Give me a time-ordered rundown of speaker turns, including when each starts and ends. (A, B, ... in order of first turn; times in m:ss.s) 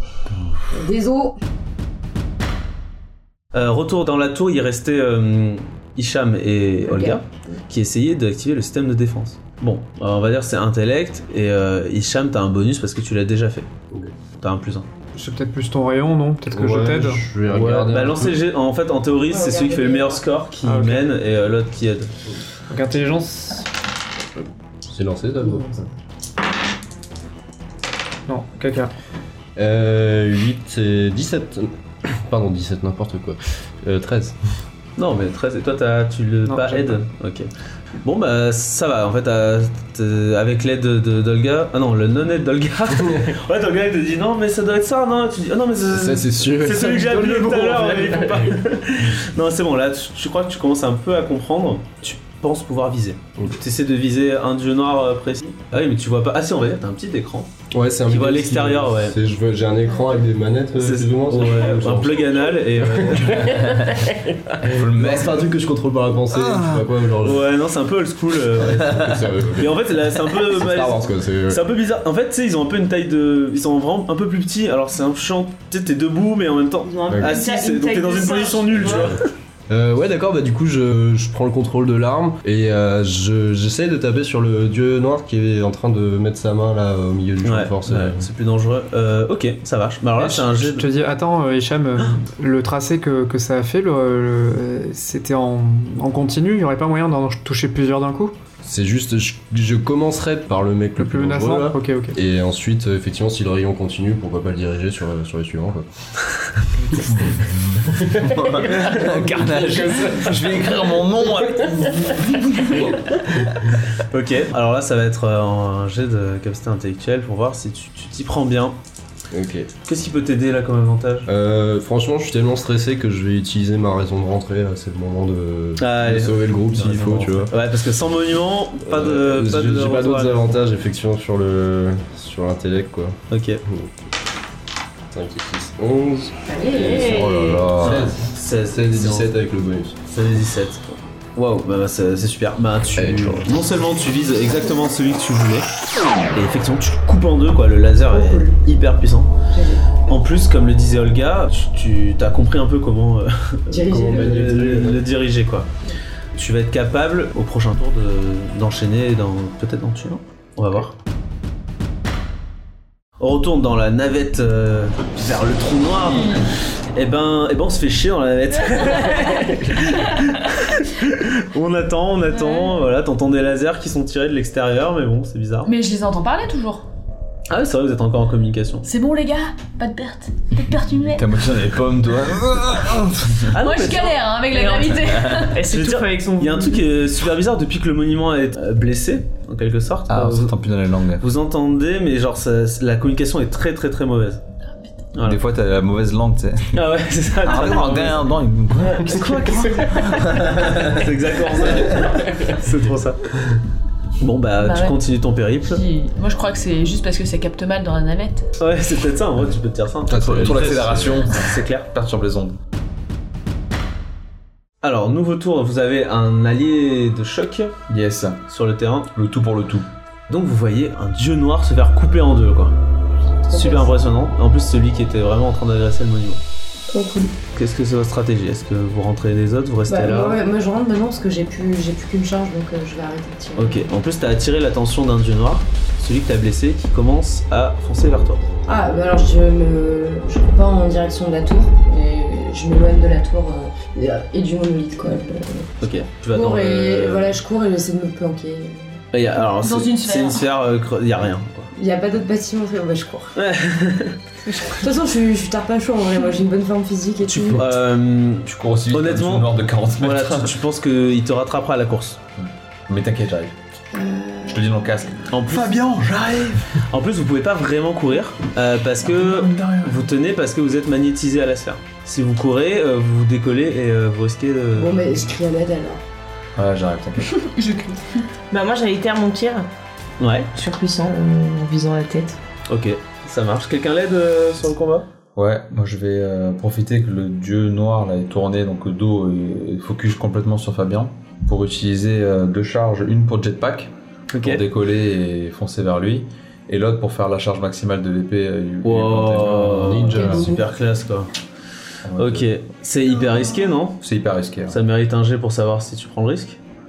0:00.3-0:00.6 A
0:00.7-0:01.4 B
0:03.5-0:13.7 C
0:06.8-0:07.6 B
0:14.4-0:14.8 C
0:15.1-0:17.2 D
0:16.5-0:18.4 E
0:17.5-0:22.1 C
0:19.3-0:20.2 B
0:20.6-0:21.1 D
0:22.7-0:23.7 D
0:24.4-0:25.8 E
0:28.3-0:28.9 D
0:29.6-0:34.4 E
0:35.0-0:37.5 C
0:36.4-0:37.0 D
0:38.0-0:57.5 C
0:43.0-0:43.3 E
0:45.9-0:48.5 E
0:57.7-1:07.5 E
0:58.1-0:59.2 C
1:00.8-1:03.6 C
1:04.6-1:05.5 A
1:06.4-1:06.8 A
1:07.2-1:19.2 C
1:08.7-1:11.6 E
1:16.8-1:19.2 F
1:17.1-1:17.4 E
1:18.9-1:28.2 E
1:27.4-1:30.8 C
1:30.2-1:38.4 D
1:38.6-1:45.8 E
1:41.0-1:42.2 D
1:47.0-1:53.0 A
1:47.1-1:47.3 E
1:47.9-1:50.5 E
1:54.1-1:58.8 C
1:59.3-1:59.7 E
1:59.8-2:01.3 C
2:01.2-2:07.5 E
2:05.8-2:10.5 C
2:08.8-2:13.9 E
2:13.3-2:13.6 C
2:15.1-2:18.1 E
2:16.5-2:17.2 B
2:16.7-2:17.7 F
2:17.1-2:18.3 A
2:17.8-2:19.3 C
2:18.7-2:20.0 E
2:20.1-2:25.6 C
2:23.0-2:23.5 E
2:26.3-2:29.3 C
2:28.1-2:28.6 B
2:29.5-2:30.0 B
2:30.1-2:35.7 C
2:33.7-2:34.6 B
2:33.8-2:35.0 E
2:36.3-2:40.9 C
2:43.2-2:55.7 C
2:52.4-2:52.7 F
2:55.6-2:56.8 G
2:57.5-2:58.9 C
2:58.8-3:01.2 G
3:01.0-3:03.5 A
3:03.5-3:04.2 C
3:03.5-3:05.6 G
3:04.5-3:06.9 F
3:05.1-3:05.5 A
3:05.6-3:10.6 C
3:10.1-3:11.2 A
3:11.2-3:14.4 C
3:15.1-3:15.4 C
3:15.2-3:16.8 A
3:16.7-3:18.3 C
3:17.4-3:21.1 A
3:19.0-3:20.3 F
3:19.0-3:23.2 C
3:21.7-3:22.0 A
3:24.2-3:25.8 C
3:24.6-3:25.0 G
3:25.6-3:28.5 G
3:28.6-3:31.9 C
3:30.1-3:32.6 A
3:30.2-3:31.1 E
3:34.8-3:37.7 C
3:37.9-3:38.4 A
3:38.5-3:39.1 C
3:39.1-3:39.8 A
3:40.3-3:42.8 C
3:43.5-3:44.0 B
3:43.5-3:46.4 C
3:46.9-3:47.3 B
3:47.5-3:50.4 C
3:49.9-3:53.9 B
3:53.6-3:58.4 C
3:58.6-4:09.0 B
4:05.8-4:07.4 C
4:09.1-4:11.7 C
4:09.6-4:10.5 G
4:11.7-4:13.3 B
4:13.4-4:14.2 C
4:14.7-4:17.7 B
4:17.2-4:22.2 C
4:18.4-4:20.6 A
4:22.4-4:23.5 A
4:23.9-4:25.0 B
4:24.4-4:26.8 A
4:25.3-4:25.8 C
4:26.8-4:35.2 C
4:29.0-4:30.0 A
4:34.7-4:36.0 B
4:36.6-4:37.5 A
4:38.5-4:39.7 F
4:40.2-4:40.5 C
4:40.5-4:42.4 F
4:42.7-4:45.1 C
4:45.3-5:00.6 A
4:54.3-4:54.6 C
4:58.8-5:01.3 C
4:59.8-5:00.5 E
5:00.2-5:00.5 B
5:02.0-5:02.5 A
5:02.2-5:04.0 C
5:04.0-5:04.8 A
5:04.7-5:06.6 C